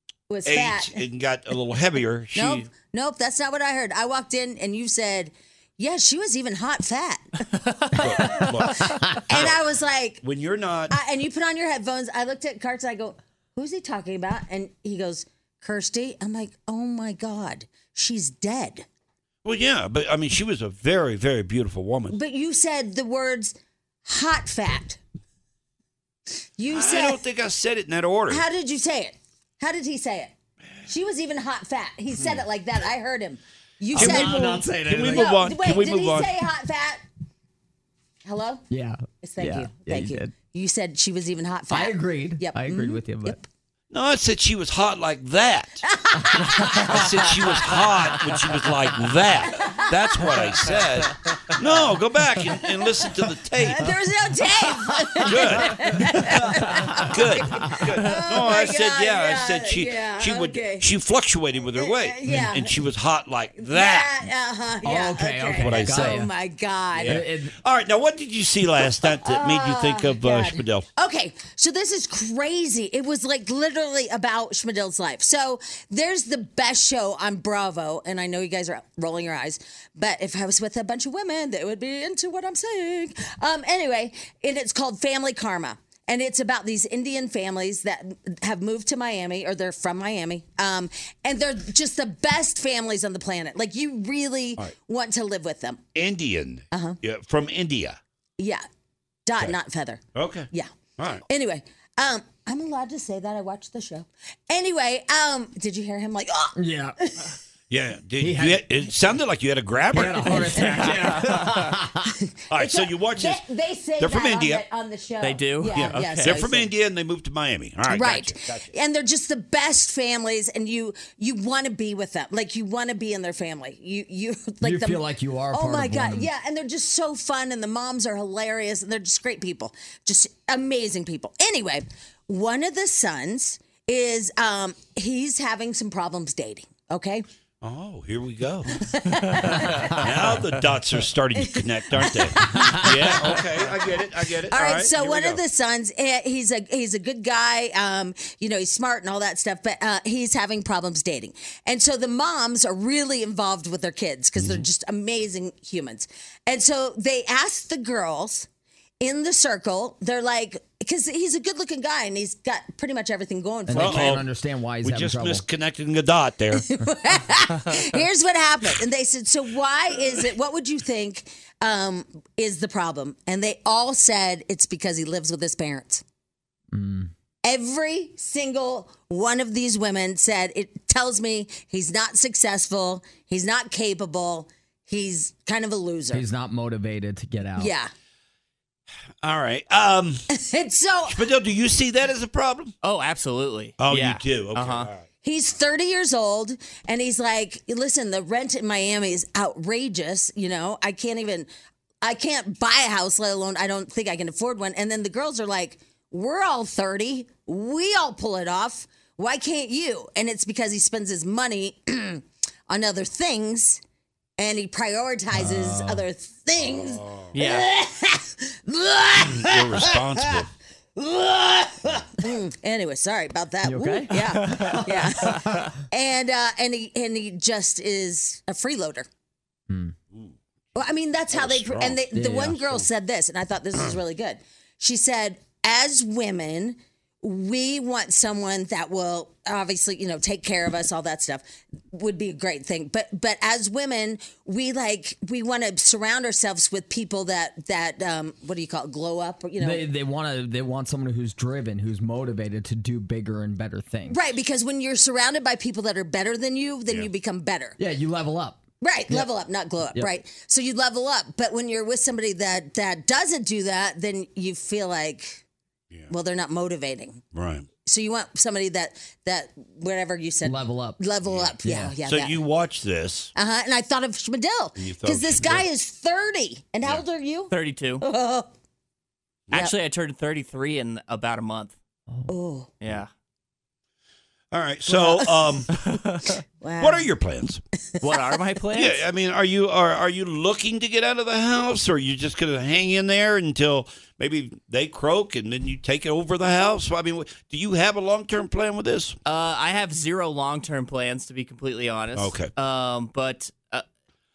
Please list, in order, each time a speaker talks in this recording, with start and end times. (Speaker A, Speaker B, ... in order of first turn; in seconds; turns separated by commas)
Speaker A: 0.3-1.0, Speaker B: 0.5-2.7, Speaker A: 2.3-10.2, Speaker B: 7.9-9.6, Speaker C: 8.8-9.1, Speaker B: 10.2-10.9, Speaker A: 10.9-18.9, Speaker B: 19.4-22.1, Speaker A: 22.1-25.0, Speaker A: 26.6-27.2, Speaker B: 26.7-28.4, Speaker A: 28.3-30.3, Speaker A: 30.9-37.0, Speaker C: 33.9-35.4, Speaker B: 33.9-36.3, Speaker A: 38.2-38.6, Speaker C: 38.7-40.3, Speaker A: 39.2-43.5, Speaker C: 41.7-43.4, Speaker B: 43.9-45.9, Speaker A: 45.8-47.3, Speaker C: 46.4-46.9, Speaker B: 46.6-53.9, Speaker A: 49.5-50.6, Speaker A: 52.6-53.0, Speaker A: 53.6-60.9, Speaker B: 55.2-64.2, Speaker C: 55.8-57.8, Speaker A: 61.7-62.8, Speaker A: 63.6-67.2, Speaker C: 64.8-66.3, Speaker B: 65.6-66.2, Speaker B: 66.9-70.9, Speaker C: 67.0-67.5, Speaker A: 69.2-95.8, Speaker B: 95.9-98.0, Speaker A: 96.7-97.0, Speaker A: 99.2-100.7, Speaker B: 100.1-101.2, Speaker A: 101.3-107.3, Speaker C: 106.6-107.0, Speaker B: 107.7-110.8, Speaker C: 108.2-108.7, Speaker C: 109.9-112.1, Speaker A: 110.2-111.2, Speaker D: 110.8-111.7, Speaker A: 112.0-116.7, Speaker B: 112.5-113.4, Speaker B: 114.0-114.6, Speaker D: 115.2-116.4, Speaker B: 115.7-118.7, Speaker A: 117.9-137.2, Speaker C: 124.6-126.3, Speaker B: 137.6-145.4, Speaker A: 138.7-140.1, Speaker A: 141.4-143.4, Speaker C: 142.5-142.8, Speaker A: 144.5-158.5, Speaker B: 154.4-154.6, Speaker A: 159.0-164.2, Speaker C: 163.7-165.4, Speaker B: 163.8-164.3, Speaker B: 164.8-166.7, Speaker A: 166.6-176.0, Speaker C: 176.7-177.1, Speaker A: 177.4-186.2, Speaker C: 186.1-187.7, Speaker A: 187.6-187.9, Speaker B: 189.2-190.2, Speaker A: 190.3-191.2, Speaker B: 191.1-192.7, Speaker D: 192.8-194.9, Speaker B: 193.8-195.0, Speaker A: 195.2-201.5, Speaker A: 202.0-213.8, Speaker A: 214.4-220.3, Speaker C: 215.3-216.0, Speaker B: 216.6-217.3, Speaker D: 217.3-217.7, Speaker B: 219.2-220.5, Speaker A: 221.0-229.1, Speaker C: 223.6-225.7, Speaker C: 229.7-229.9, Speaker A: 230.7-249.8, Speaker B: 231.3-232.0, Speaker C: 232.1-232.6, Speaker C: 249.6-254.2, Speaker A: 254.1-257.8, Speaker C: 257.8-259.3, Speaker A: 258.8-265.4, Speaker A: 266.1-267.2, Speaker B: 267.3-267.7, Speaker A: 267.8-272.4, Speaker C: 270.4-271.0, Speaker B: 271.2-273.3, Speaker C: 271.6-271.9, Speaker A: 273.3-278.5, Speaker B: 274.8-275.6, Speaker D: 277.5-278.0, Speaker D: 279.5-281.8, Speaker A: 282.3-282.7, Speaker D: 282.8-283.1, Speaker B: 284.5-285.8, Speaker A: 284.9-285.9, Speaker D: 285.8-286.4, Speaker A: 286.6-287.1, Speaker B: 286.8-287.6, Speaker A: 287.8-288.3, Speaker D: 288.0-289.0, Speaker B: 288.7-299.2, Speaker D: 299.2-303.8, Speaker B: 302.1-302.5